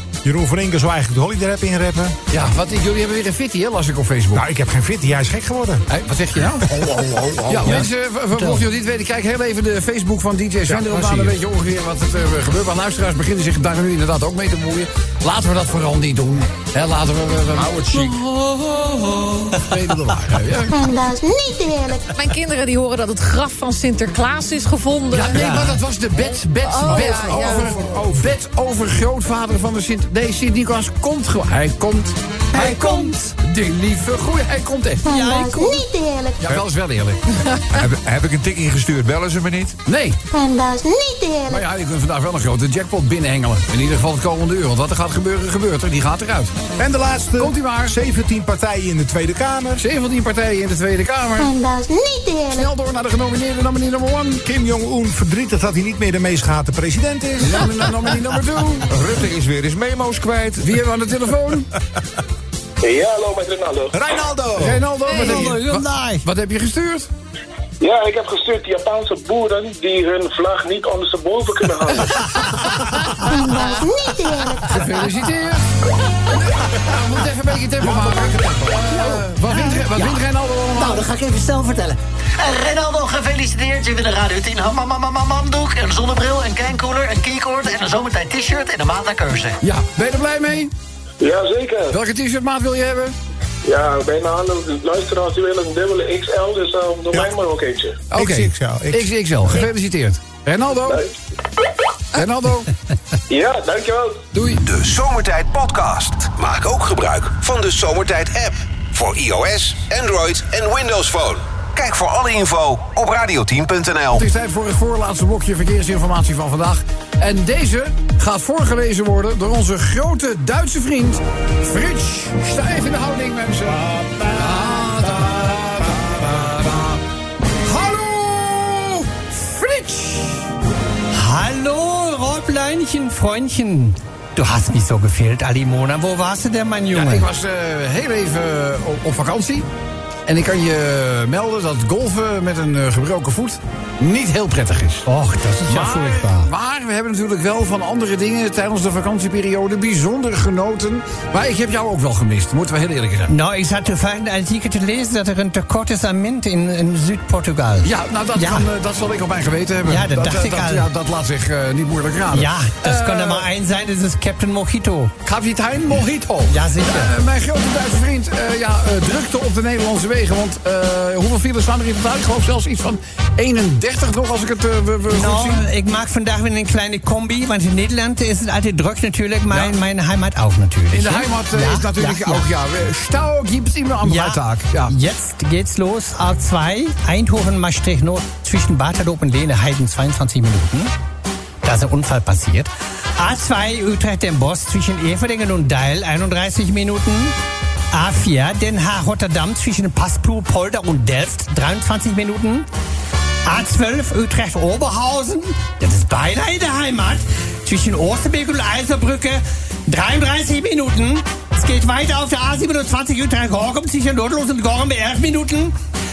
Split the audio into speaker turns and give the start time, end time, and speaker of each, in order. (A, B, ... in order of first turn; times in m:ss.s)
0:00.2-0:02.2 A
0:02.3-0:04.4 B
0:04.3-0:05.8 A
0:05.9-0:20.7 B
0:06.7-0:07.8 A
0:07.6-0:08.6 C
0:10.8-0:11.3 A
0:17.5-0:18.2 D
0:20.7-0:22.1 E
0:22.1-0:25.4 F
0:25.1-0:35.0 B
0:25.3-0:25.8 C
0:26.6-0:27.7 F
0:27.8-0:28.2 A
0:32.5-0:33.2 C
0:35.0-0:36.4 E
0:35.0-0:35.8 C
0:36.4-0:37.2 B
0:37.7-0:39.8 D
0:39.9-0:40.2 B
0:40.3-0:41.6 E
0:41.5-0:46.7 B
0:46.8-0:49.8 A
0:47.4-0:48.0 B
0:49.8-0:51.5 B
0:51.4-0:52.7 E
0:52.5-0:54.4 B
0:54.4-0:57.7 A
0:57.4-0:58.9 B
0:58.9-1:00.8 D
1:00.6-1:01.7 B
1:02.8-1:04.0 G
1:03.9-1:04.8 A
1:04.6-1:07.1 B
1:05.1-1:05.4 F
1:05.1-1:06.2 C
1:07.8-1:12.2 G
1:13.2-1:15.0 E
1:14.7-1:21.1 B
1:17.8-1:18.8 A
1:18.9-1:29.6 H
1:29.6-1:30.7 B
1:31.2-1:32.0 G
1:31.9-1:33.1 B
1:33.6-1:38.0 G
1:38.1-1:41.0 B
1:38.1-1:39.1 A
1:42.1-1:42.7 B
1:43.3-1:44.2 G
1:44.3-1:44.6 B
1:44.6-1:54.2 I
1:54.1-2:07.0 B
2:03.7-2:05.4 A
2:05.9-2:06.2 A
2:07.6-2:10.4 B
2:11.1-2:17.3 C
2:16.9-2:19.7 B
2:20.3-2:25.0 B
2:25.1-2:26.5 C
2:25.6-2:33.3 B
2:33.3-2:38.7 C
2:37.8-2:43.5 B
2:39.9-2:40.9 C
2:42.3-2:45.1 C
2:45.2-2:55.6 B
2:46.5-2:47.2 C
2:55.1-3:02.4 C
3:00.9-3:04.9 B
3:04.0-3:10.9 C
3:11.6-3:17.3 C
3:17.9-3:22.7 C
3:23.4-3:35.7 C